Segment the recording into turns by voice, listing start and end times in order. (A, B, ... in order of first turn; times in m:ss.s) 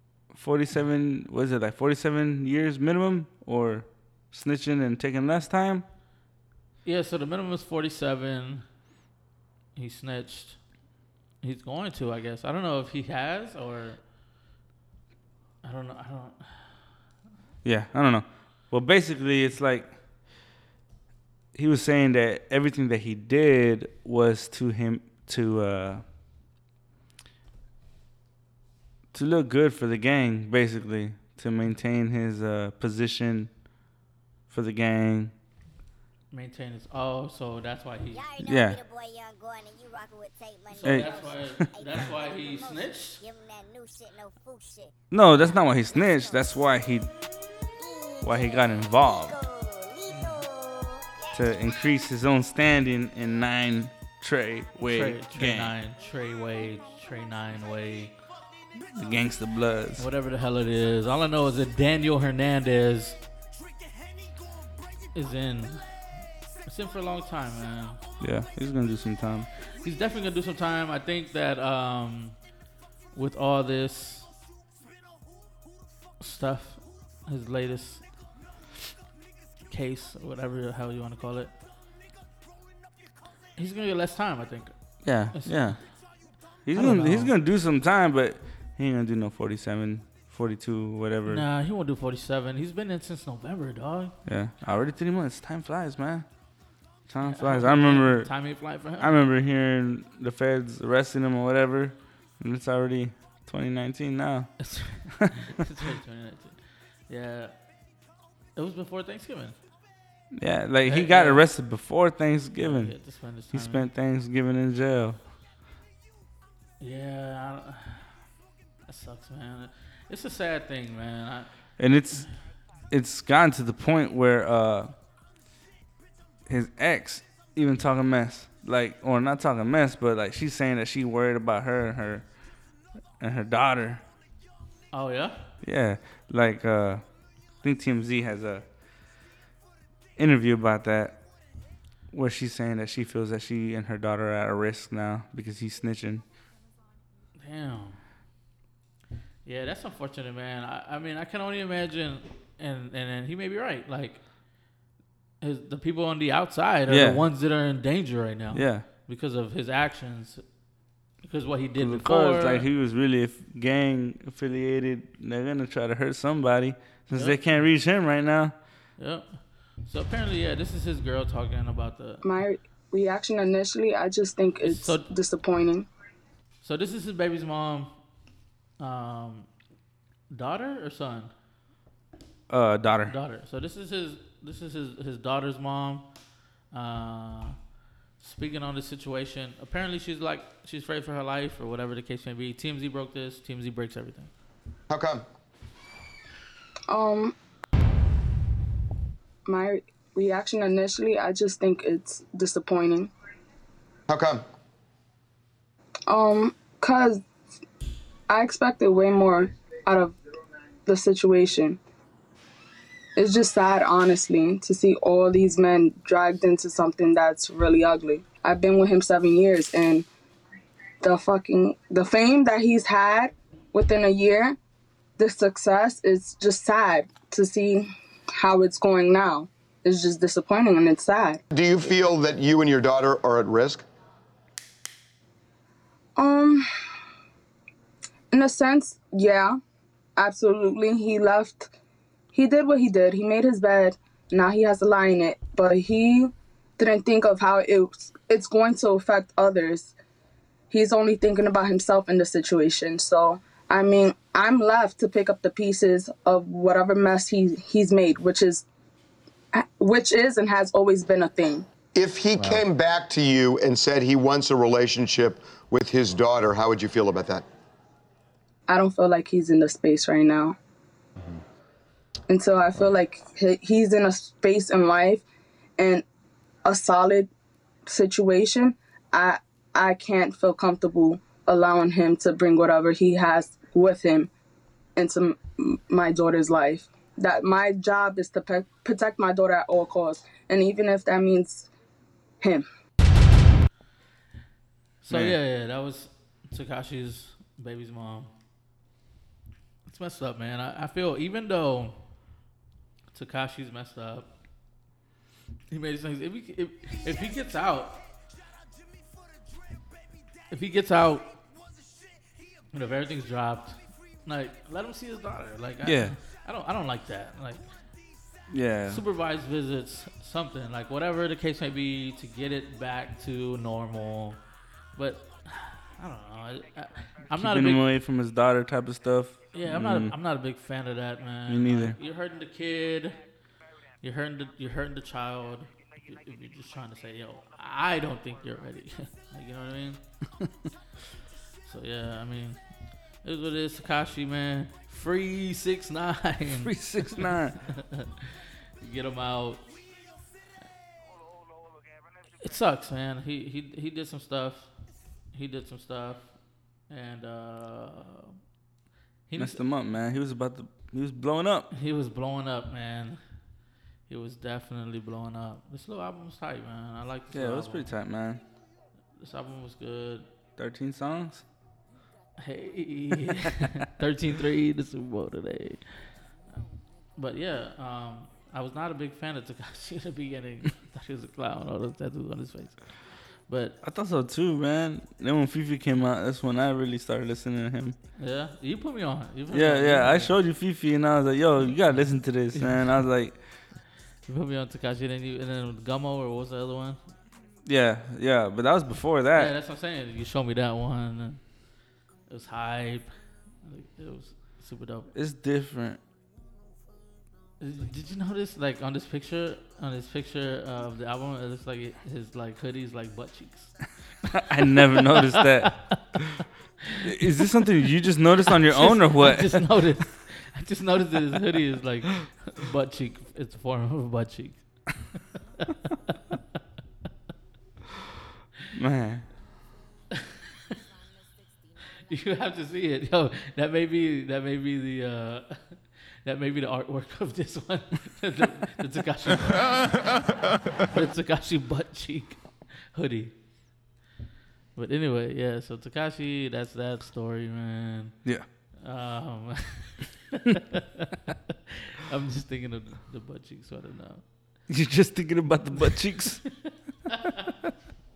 0:00.3-0:05.8 A
0:06.8-0:08.6 B
0:09.8-0:10.6 B
0:11.4-0:14.0 B
0:15.6-0:16.8 B
0:17.6-0:20.0 A
0:21.5-0:26.0 A
0:29.1-0:33.5 A
0:34.5-0:35.3 A
0:36.3-0:38.2 B
0:38.1-0:44.9 C
0:38.4-0:38.8 A
0:40.7-0:43.2 B
0:40.8-0:41.7 A
0:45.1-0:47.1 A
0:45.8-0:46.5 C
0:47.8-0:51.6 C
0:48.2-0:49.4 A
0:50.1-0:50.4 B
0:51.3-0:55.8 A
0:54.8-0:58.1 B
0:58.9-1:00.1 A
1:00.0-1:03.2 B
1:05.1-1:05.9 B
1:06.7-1:08.0 B
1:08.2-1:09.5 A
1:09.8-1:12.4 B
1:13.1-1:14.3 B
1:16.2-1:18.1 B
1:19.7-1:21.5 B
1:23.6-1:24.7 B
1:25.0-1:25.9 A
1:25.3-1:25.9 B
1:26.6-1:31.4 A
1:26.7-1:27.3 B
1:31.3-1:34.1 B
1:34.2-1:36.3 A
1:37.1-1:38.4 A
1:37.2-1:39.1 B
1:39.0-1:45.3 A
1:44.6-1:47.5 B
1:48.6-1:49.6 B
1:50.3-1:53.0 A
1:50.8-1:51.5 B
1:52.6-1:53.9 B
1:53.5-1:55.2 A
1:56.8-1:58.1 B
1:58.9-2:01.5 B
2:01.8-2:02.3 A
2:02.9-2:04.9 A
2:06.5-2:12.2 A
2:13.2-2:14.0 A
2:14.9-2:15.5 B
2:15.6-2:17.0 A
2:17.6-2:18.7 A
2:20.2-2:21.2 A
2:22.1-2:26.2 A
2:27.4-2:28.0 B
2:29.4-2:34.2 B
2:35.4-2:40.4 B
2:36.9-2:37.2 A
2:38.5-2:38.9 A
2:41.2-2:42.7 B
2:41.8-2:48.5 A
2:47.1-2:47.7 B
2:49.0-2:52.2 B
2:52.2-2:55.9 D
2:54.6-2:55.1 B
2:56.6-2:57.9 B
2:58.8-2:59.5 B
3:00.3-3:01.3 B
3:02.5-3:03.2 A
3:03.1-3:06.1 B
3:06.7-3:07.6 B
3:08.2-3:14.3 B
3:14.9-3:15.2 E
3:16.9-3:17.3 D
3:19.5-3:23.1 D
3:24.1-3:24.4 E
3:26.1-3:27.2 D
3:28.3-3:30.2 D
3:30.9-3:31.8 D
3:33.2-3:40.1 D
3:41.0-3:44.6 D
3:45.2-3:51.4 D
3:51.5-3:53.8 E
3:56.2-3:56.7 D
3:58.3-3:59.6 D
4:00.2-4:01.7 D
4:02.3-4:09.9 D
4:10.7-4:18.6 D
4:19.5-4:21.7 D
4:22.0-4:27.4 E
4:28.7-4:30.6 D
4:32.3-4:35.2 D
4:35.8-4:36.0 D
4:36.6-4:37.3 D
4:37.9-4:44.3 D
4:45.0-4:51.7 D
4:55.0-4:58.3 B
4:55.1-4:55.4 A
4:59.9-5:02.0 B
5:03.1-5:04.3 B
5:05.7-5:08.0 B
5:10.5-5:11.3 B
5:12.7-5:17.7 B
5:15.8-5:16.2 A
5:18.5-5:19.0 A
5:18.9-5:24.4 B
5:25.0-5:27.8 B
5:27.3-5:30.2 A
5:29.5-5:33.2 B
5:31.5-5:32.0 A
5:34.0-5:40.0 B
5:41.6-5:42.6 B
5:43.2-5:49.6 B
5:46.5-5:47.6 A
5:52.4-5:54.7 B
5:55.3-5:56.3 B
5:56.9-5:58.4 B
5:59.3-5:59.6 B
5:59.4-6:01.7 A
6:01.7-6:03.2 B
6:04.1-6:07.9 B
6:07.3-6:08.4 A
6:09.2-6:10.2 B
6:10.6-6:11.5 A
6:12.4-6:16.0 B
6:17.2-6:23.8 B
6:23.8-6:28.0 A
6:28.2-6:30.3 B
6:29.5-6:33.4 A
6:32.5-6:32.9 B
6:34.3-6:37.0 B
6:37.6-6:39.5 A
6:39.3-6:41.4 B
6:42.3-6:43.1 B
6:43.6-6:45.1 B
6:45.1-6:46.0 A
6:47.6-6:56.1 B
6:54.3-6:56.2 A
6:56.8-6:57.3 B
6:57.0-6:59.8 A
6:58.6-7:04.9 B
7:08.7-7:09.3 A
7:12.0-7:20.2 B
7:20.8-7:23.4 B
7:24.8-7:28.2 B
7:28.8-7:31.4 B
7:31.9-7:34.2 B
7:34.7-7:36.4 A